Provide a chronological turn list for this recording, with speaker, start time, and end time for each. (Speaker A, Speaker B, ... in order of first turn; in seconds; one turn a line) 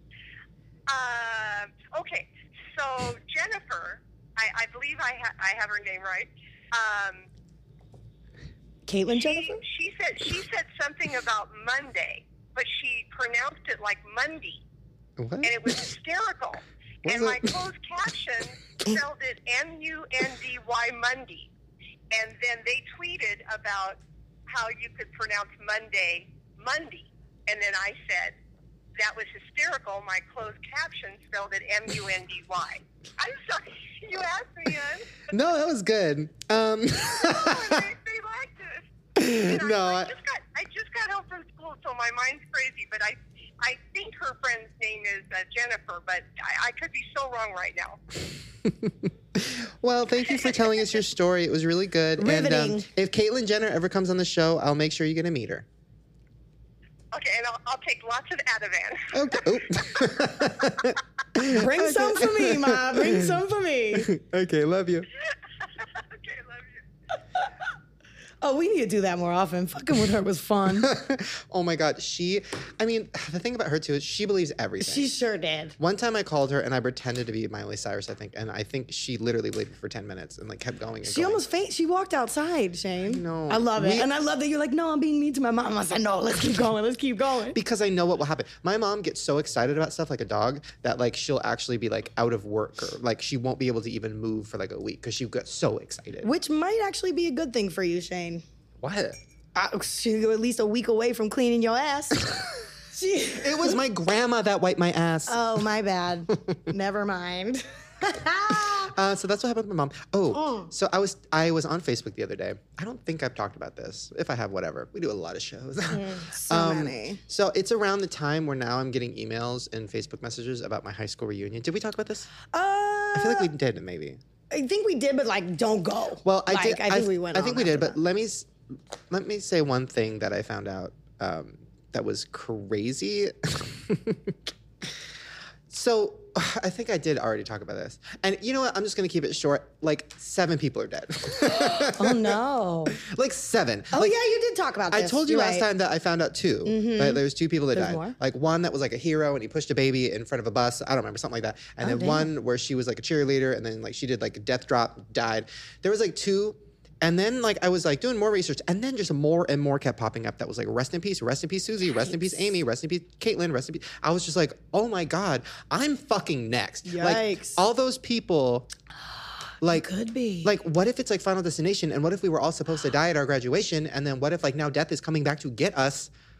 Speaker A: 0.9-7.3
Speaker B: 8.9-9.6
Speaker A: 9.1-14.6
Speaker C: 15.2-15.7
Speaker A: 15.4-21.5
Speaker C: 17.0-17.6
Speaker A: 22.1-28.3
Speaker A: 29.0-35.2
Speaker C: 35.3-37.9
Speaker A: 37.1-48.0
Speaker C: 39.1-40.1
Speaker C: 48.6-55.6
Speaker B: 52.2-52.9
Speaker A: 57.1-59.8
Speaker C: 59.1-63.4
Speaker B: 61.5-64.1
Speaker C: 63.9-65.1
Speaker A: 65.8-66.8
Speaker B: 68.4-70.9
Speaker C: 70.8-75.1
Speaker B: 74.8-75.8
Speaker C: 75.8-81.4
Speaker B: 81.0-87.6
Speaker C: 83.1-84.1
Speaker C: 87.5-96.3
Speaker B: 96.2-98.4
Speaker C: 98.8-99.2
Speaker B: 99.5-103.8
Speaker C: 103.4-105.4
Speaker B: 105.3-108.9
Speaker C: 108.5-122.3
Speaker B: 110.3-110.7
Speaker B: 115.9-117.2
Speaker B: 122.5-123.5
Speaker C: 123.1-124.2
Speaker B: 124.5-128.0
Speaker C: 126.2-128.5
Speaker C: 129.1-134.9
Speaker C: 135.7-142.3
Speaker B: 141.5-143.0
Speaker C: 142.9-144.2
Speaker B: 143.9-145.7
Speaker C: 144.9-168.7
Speaker B: 146.6-148.2
Speaker B: 151.8-152.3
Speaker B: 166.8-167.6
Speaker C: 169.6-169.9
Speaker B: 169.7-170.5
Speaker C: 170.4-176.1